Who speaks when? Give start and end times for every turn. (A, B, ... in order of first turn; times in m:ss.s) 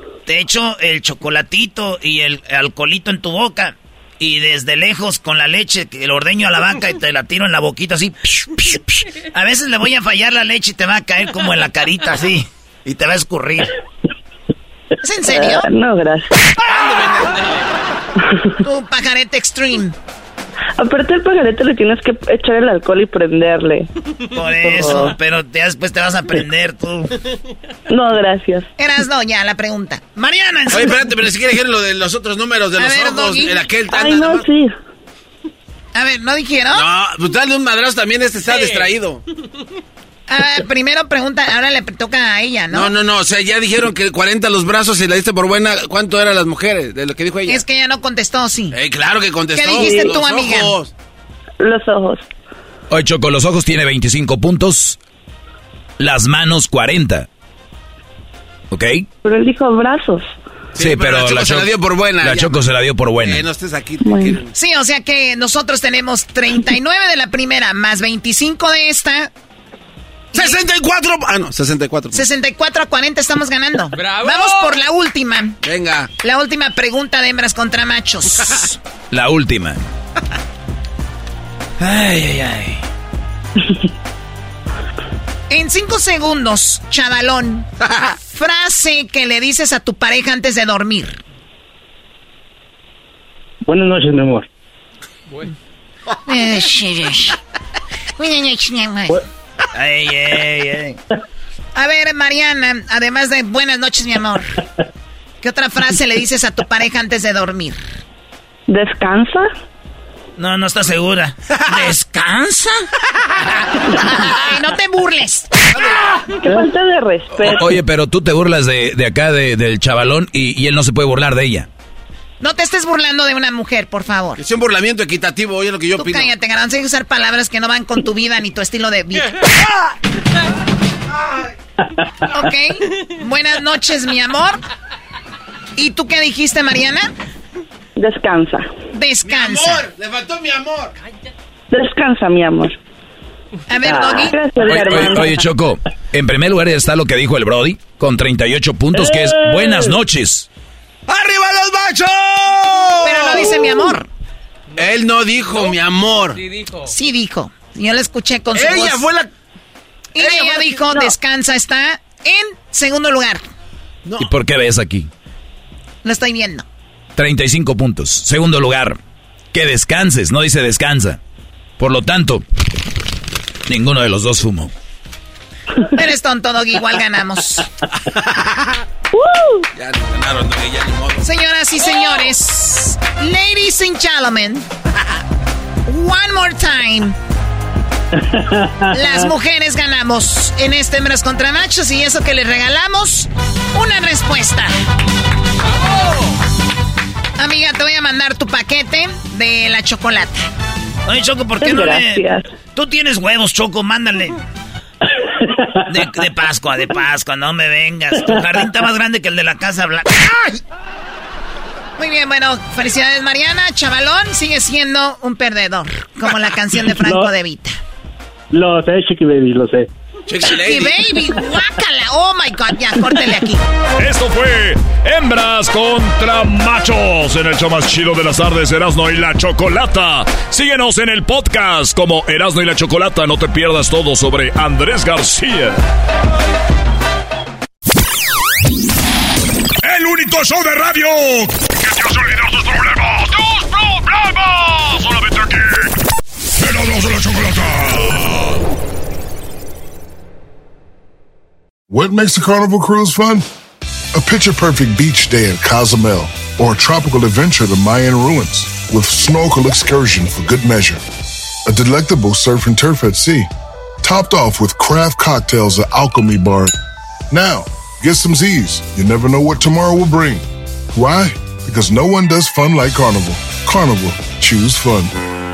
0:00.3-0:13.7 A
0:15.0-0:15.6 B
0:15.2-0:16.4 C
0:16.6-0:17.5 D
0:18.6-0:19.9 B
0:20.8-0:23.9 C
0:24.3-0:27.2 A
0:24.6-0:25.2 C
0:27.9-0:28.7 C
0:28.8-0:30.9 B
0:30.7-0:34.4 D
0:32.8-0:33.6 B
0:33.9-0:34.7 C
0:35.9-0:36.8 B
0:36.7-0:39.2 D
0:40.3-0:42.9 B
0:42.7-0:47.6 D
0:47.5-0:48.8 B
0:48.7-0:50.9 D
0:49.5-0:50.7 B
0:49.8-0:50.0 C
0:51.6-0:52.2 C
0:52.9-0:55.0 E
0:56.0-0:57.3 E
0:58.7-0:59.1 E
0:59.2-1:00.3 C
1:00.7-1:02.6 D
1:00.8-1:03.4 E
1:03.2-1:04.5 D
1:04.0-1:04.4 C
1:04.6-1:09.3 B
1:10.3-1:12.3 D
1:12.1-1:15.6 B
1:15.6-1:16.1 D
1:16.2-1:18.8 B
1:19.1-1:19.8 E
1:21.8-1:22.8 A
1:25.5-1:27.7 B
1:28.3-1:31.2 B
1:33.6-1:34.5 F
1:36.3-1:37.4 B
1:38.2-1:39.2 B
1:39.7-1:41.0 A
1:41.7-1:44.5 B
1:45.4-1:47.8 B
1:48.7-1:49.5 C
1:50.4-1:52.7 A
1:54.1-1:55.5 B
1:55.7-1:56.0 D
1:56.4-1:57.6 C
1:57.4-2:01.7 E
2:02.4-2:04.4 B
2:04.4-2:06.3 D
2:06.0-2:09.5 B
2:12.3-2:14.6 B
2:15.8-2:17.1 B
2:18.0-2:18.7 C
2:18.9-2:19.8 B
2:19.2-2:20.9 D
2:21.7-2:22.8 C
2:23.7-2:24.5 B
2:23.8-2:25.4 C
2:24.6-2:30.5 E
2:28.9-2:30.0 F
2:31.1-2:33.7 D
2:33.0-2:34.1 B
2:34.8-2:36.4 D
2:36.8-2:39.0 B
2:38.5-2:39.3 D
2:40.2-2:43.5 B
2:40.2-2:41.0 D
2:44.2-2:45.1 E
2:46.0-2:46.6 B
2:47.2-2:49.0 E
2:49.5-2:51.2 E
2:51.8-2:52.4 E
2:53.7-2:54.7 E
2:55.9-2:57.7 B
2:58.0-2:58.8 D
2:59.7-3:01.3 D
3:01.2-3:04.6 B
3:05.9-3:07.2 B
3:08.2-3:09.2 F
3:08.9-3:14.7 B
3:17.4-3:20.5 B
3:21.1-3:24.4 A
3:21.6-3:22.5 C
3:25.9-3:30.6 A
3:32.0-3:37.8 B
3:36.8-3:37.4 F
3:38.5-3:39.9 F
3:40.3-3:41.2 D
3:40.5-3:43.6 B
3:44.0-3:55.8 G
3:59.8-4:05.9 G
4:06.6-4:08.6 G
4:11.9-4:13.4 H
4:14.1-4:21.0 H
4:21.7-4:23.5 H
4:24.0-4:26.7 H
4:27.3-4:30.4 H
4:30.9-4:35.1 H